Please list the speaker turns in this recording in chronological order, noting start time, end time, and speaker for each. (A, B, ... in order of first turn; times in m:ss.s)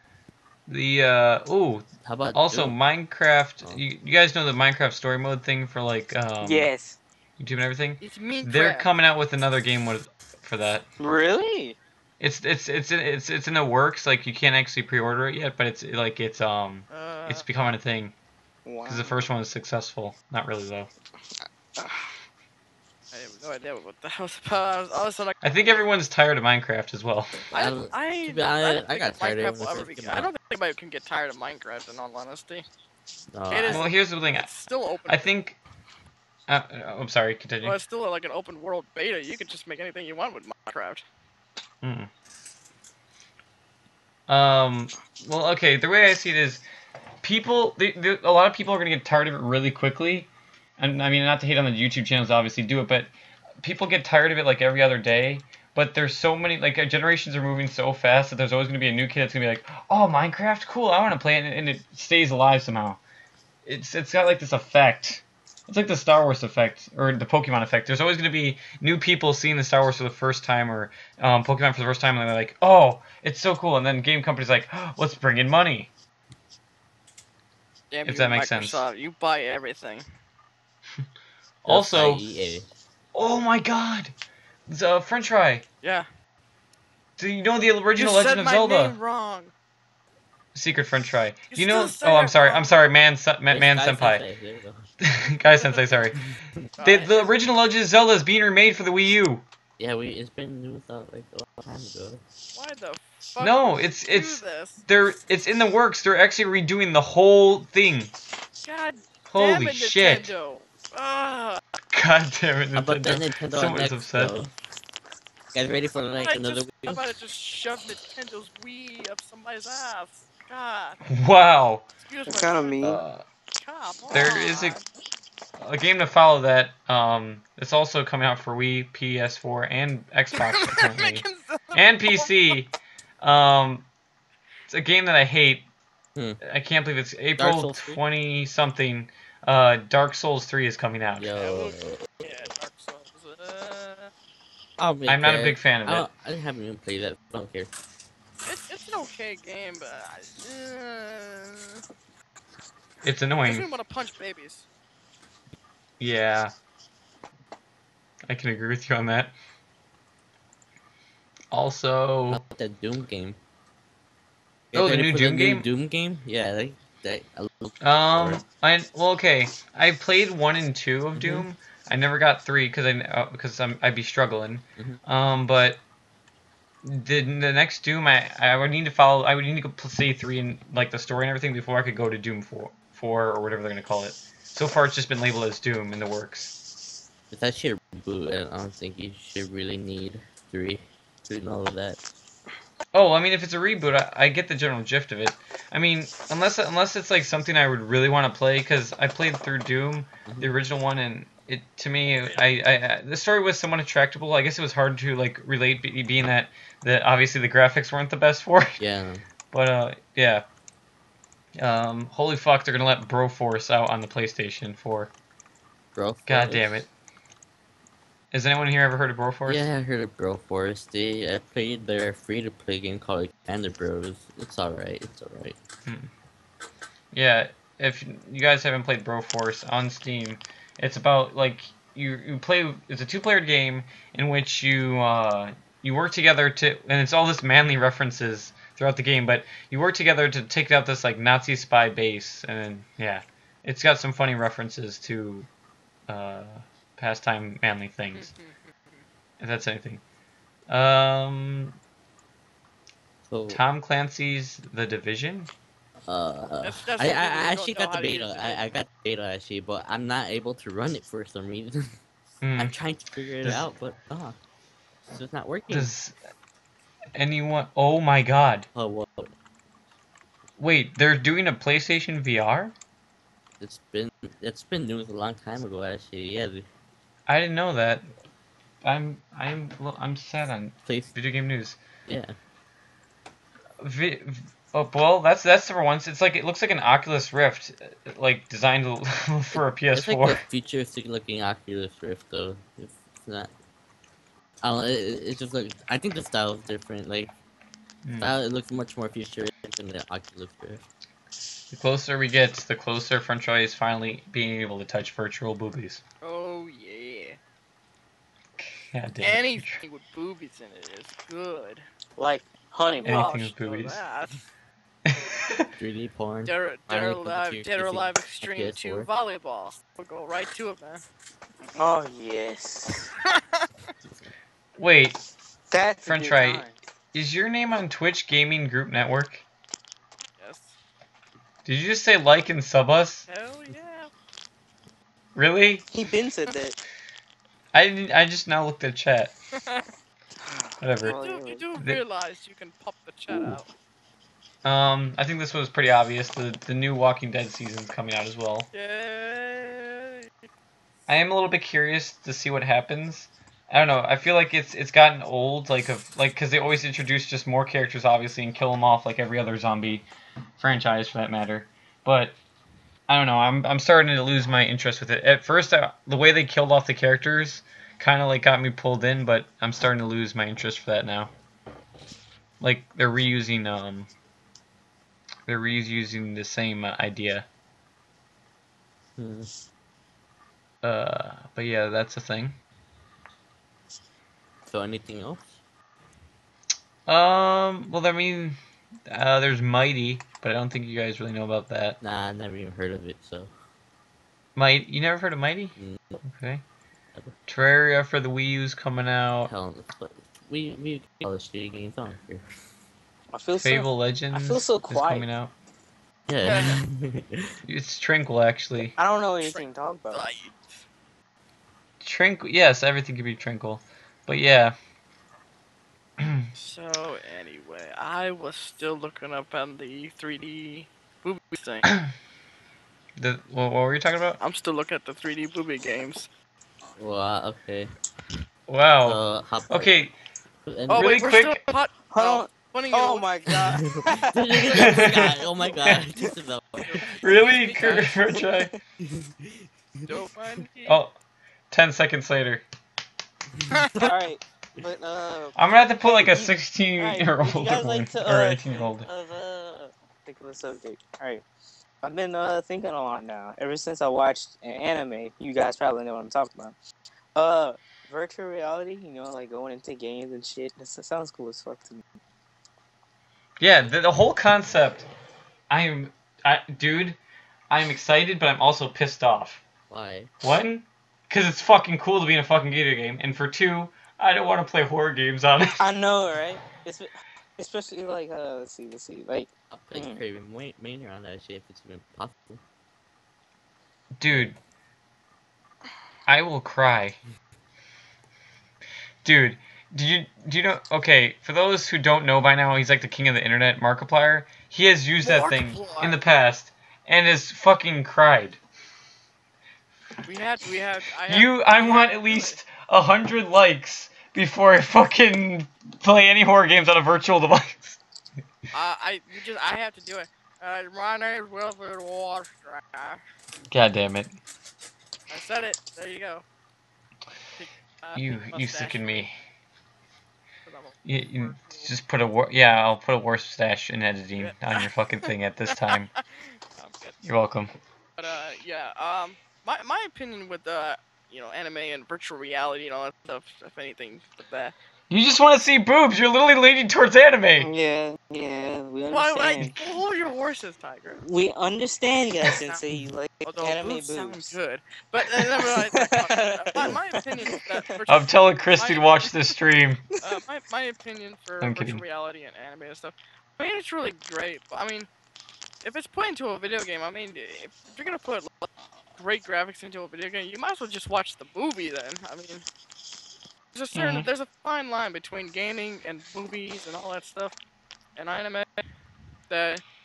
0:00.7-0:06.7 A
0:02.0-0:02.8 B
0:06.4-0:07.0 C
0:07.4-0:10.8 A
0:08.0-0:08.9 D
0:11.0-0:11.8 C
0:12.2-0:18.1 A
0:16.9-0:17.5 D
0:18.6-0:19.2 C
0:18.8-0:20.9 A
0:21.8-0:22.1 C
0:23.1-0:25.4 D
0:25.4-0:27.4 A
0:27.5-0:30.3 B
0:27.5-0:32.6 D
0:33.3-0:33.8 B
0:33.5-0:35.3 D
0:33.7-0:34.5 A
0:35.1-0:35.6 A
0:36.5-0:37.8 A
0:37.6-0:41.0 D
0:41.8-0:42.1 A
0:44.3-0:46.6 A
0:47.2-1:03.0 A
1:03.6-1:15.9 A
1:17.9-1:20.0 D
1:18.0-1:18.9 A
1:21.6-1:22.3 A
1:21.7-1:22.7 B
1:23.1-1:24.1 A
1:24.7-1:25.6 A
1:25.8-1:26.1 D
1:27.2-1:29.0 A
1:27.9-1:29.5 D
1:30.5-1:34.2 A
1:31.5-1:32.9 D
1:33.5-1:34.8 B
1:35.0-1:36.2 A
1:35.4-1:36.1 D
1:36.2-1:36.6 B
1:36.8-1:37.3 D
1:36.8-1:39.4 A
1:39.8-1:42.2 B
1:42.5-1:44.8 D
1:43.4-1:48.1 A
1:48.6-1:51.6 D
1:49.3-1:50.3 A
1:51.9-1:54.4 A
1:52.7-1:54.5 B
1:55.5-1:57.0 B
1:56.2-2:01.0 D
2:01.0-2:01.8 A
2:02.1-2:02.9 D
2:02.3-2:03.0 C
2:02.8-2:03.2 A
2:03.6-2:04.8 D
2:04.1-2:04.8 A
2:05.6-2:13.8 A
2:10.4-2:12.5 D
2:14.7-2:15.7 A
2:16.4-2:21.3 A
2:17.4-2:18.0 B
2:21.2-2:22.5 B
2:21.3-2:24.1 D
2:24.8-2:27.7 B
2:25.1-2:26.1 A
2:28.4-2:31.8 D
2:33.0-2:33.7 A
2:33.4-2:34.6 D
2:36.0-2:36.5 A
2:38.3-2:39.3 A
2:41.5-2:42.4 A
2:42.3-2:43.4 B
2:44.7-2:48.4 B
2:44.7-2:45.7 A
2:47.8-2:55.8 A
2:51.1-2:51.4 B
2:56.8-3:06.5 A
3:07.3-3:12.0 B
3:12.9-3:28.8 A
3:20.2-3:20.5 B
3:28.8-3:29.2 B
3:29.5-3:30.4 A
3:31.6-3:35.1 A
3:35.9-3:36.7 B
3:36.3-3:36.9 A
3:38.3-3:39.7 A
3:39.5-3:45.6 B
3:45.8-3:46.1 A
3:47.1-4:05.5 A
4:06.1-4:08.3 A
4:08.2-4:08.7 D
4:09.4-4:10.0 A
4:10.7-4:11.8 A
4:13.3-4:13.6 B
4:13.5-4:15.5 A
4:16.1-4:22.0 B
4:16.6-4:18.8 D
4:22.4-4:22.7 A
4:22.6-4:24.4 B
4:23.4-4:23.7 A
4:25.0-4:25.9 B
4:25.7-4:26.1 A
4:27.1-4:28.7 A
4:28.7-4:29.3 B
4:30.6-4:32.7 A
4:33.6-4:36.6 B
4:37.3-4:38.0 A
4:38.8-4:41.8 A
4:40.8-4:41.1 B
4:42.1-4:42.3 B
4:43.8-4:50.4 A
4:49.9-4:53.5 B
4:54.6-4:57.3 B
4:58.0-4:58.3 A
4:58.2-5:00.8 B
5:01.7-5:06.0 A
5:06.2-5:07.4 D
5:08.6-5:09.8 A
5:09.2-5:11.8 D
5:12.2-5:13.4 C
5:13.0-5:14.4 D
5:13.0-5:14.0 A
5:15.0-5:15.7 A
5:15.8-5:19.1 B
5:16.4-5:21.0 D
5:21.8-5:23.1 C
5:23.2-5:23.7 D
5:24.0-5:24.3 B
5:24.8-5:25.2 A
5:25.7-5:26.8 C
5:26.0-5:29.4 A
5:30.4-5:30.8 D
5:31.6-5:33.3 A
5:33.3-5:34.1 D
5:35.3-5:35.8 A
5:35.9-5:36.8 C
5:37.7-5:39.3 A
5:39.5-5:39.9 D
5:40.4-5:41.6 C
5:40.8-5:41.2 A
5:41.0-5:43.7 D
5:44.6-5:48.7 A
5:48.7-5:50.3 D
5:51.1-6:00.0 A
6:00.6-6:02.3 A
6:03.1-6:11.3 A
6:12.6-6:14.1 A
6:15.5-6:17.4 A
6:19.2-6:19.5 B
6:20.8-6:22.6 A
6:24.7-6:25.5 B
6:27.1-6:28.6 A
6:29.1-6:32.0 A
6:32.0-6:33.5 B
6:34.6-6:36.6 A
6:35.8-6:36.2 B
6:37.5-6:39.5 A
6:39.4-6:42.5 B
6:43.3-6:45.2 C
6:43.6-6:45.5 A
6:46.3-6:47.5 B
6:46.4-6:46.8 D
6:47.6-6:49.0 A
6:48.8-6:50.2 C
6:49.4-6:50.8 D
6:52.0-6:54.8 A
6:56.2-6:56.5 A
6:56.6-7:01.9 D
7:01.8-7:02.1 A
7:03.2-7:04.4 A
7:04.4-7:06.3 D
7:07.0-7:07.9 B
7:08.7-7:10.1 A
7:09.0-7:09.9 B
7:10.6-7:11.2 B
7:10.9-7:14.6 D
7:10.9-7:11.6 A
7:12.1-7:15.0 C
7:13.7-7:17.0 B
7:14.7-7:15.3 A
7:16.8-7:18.2 D
7:17.2-7:18.7 A
7:18.3-7:18.8 C
7:19.0-7:20.0 B
7:20.1-7:21.0 D
7:20.9-7:21.1 A
7:21.7-7:22.6 A
7:23.7-7:24.1 D
7:24.0-7:31.4 C
7:25.6-7:29.1 A
7:32.0-7:36.8 C
7:37.3-7:42.1 C
7:43.6-7:45.1 A
7:45.7-7:47.2 A
7:47.7-7:49.6 A
7:49.9-7:50.3 B
7:50.4-7:55.8 A
7:55.8-8:00.2 C
7:59.7-8:02.6 B
8:04.1-8:04.6 A
8:06.3-8:07.2 A
8:09.2-8:18.6 A
8:15.2-8:16.2 D
8:20.2-8:22.6 D
8:21.3-8:28.0 A
8:28.7-8:33.2 D
8:33.7-8:34.3 A
8:35.3-8:36.4 D
8:37.6-8:39.2 D
8:38.1-8:39.3 A
8:40.6-8:41.9 D
8:41.0-8:46.1 A
8:44.4-8:46.2 D
8:46.8-8:47.2 D
8:47.2-8:47.7 A
8:48.2-8:54.7 D
8:55.1-8:57.7 A
8:57.6-8:59.7 C
8:59.1-9:01.2 D
9:01.2-9:04.6 C
9:03.4-9:09.4 D
9:05.2-9:07.8 C
9:08.1-9:10.0 A
9:10.2-9:15.1 D
9:11.6-9:12.0 A
9:15.8-9:22.6 D
9:23.7-9:27.5 D
9:23.9-9:24.3 A
9:28.2-9:28.8 D
9:29.5-9:29.8 D